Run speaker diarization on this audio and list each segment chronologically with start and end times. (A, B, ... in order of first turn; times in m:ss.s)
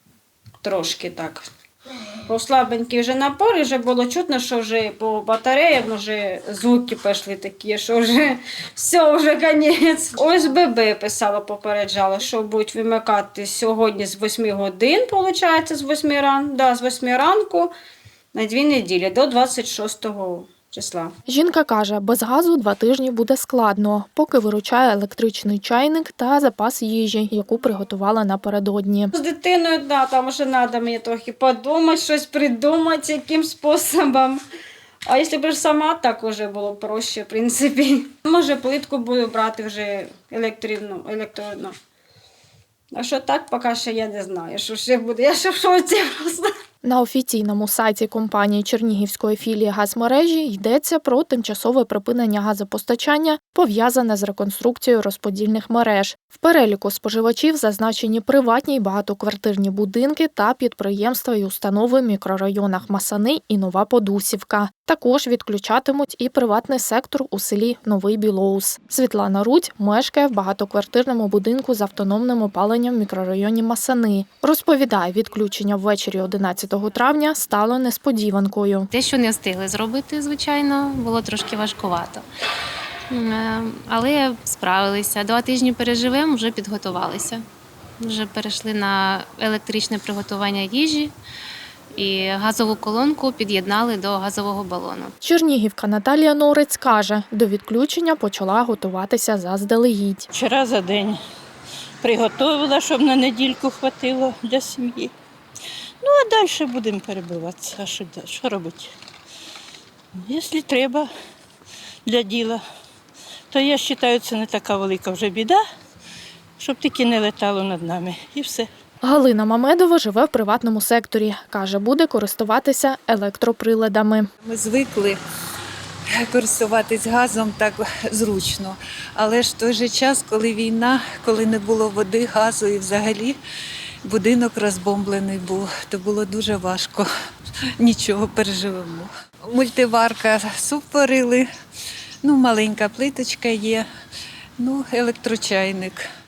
0:00.6-0:01.5 A
0:02.3-0:17.7 A
0:18.3-0:21.1 A
0:21.3-0:29.1 B
0:29.2-0:34.4 A
0:35.1-0:41.7 A
0:43.0-0:46.5 A
0:46.8-1:18.9 B
1:18.9-1:22.3 C
1:23.1-1:27.5 C
1:28.0-1:31.1 C
1:32.0-1:35.1 C
1:35.2-1:40.3 B
1:40.3-1:41.2 D
1:42.0-1:45.1 D
1:46.0-1:48.9 D
1:50.2-1:51.1 D
1:52.1-1:52.6 D
1:53.5-1:55.6 D
1:56.6-1:58.7 D
1:59.0-2:04.3 B
2:04.4-2:05.2 E
2:06.2-2:13.4 E
2:14.0-2:17.1 E
2:17.8-2:21.5 E
2:22.2-2:23.9 E
2:24.6-2:26.0 E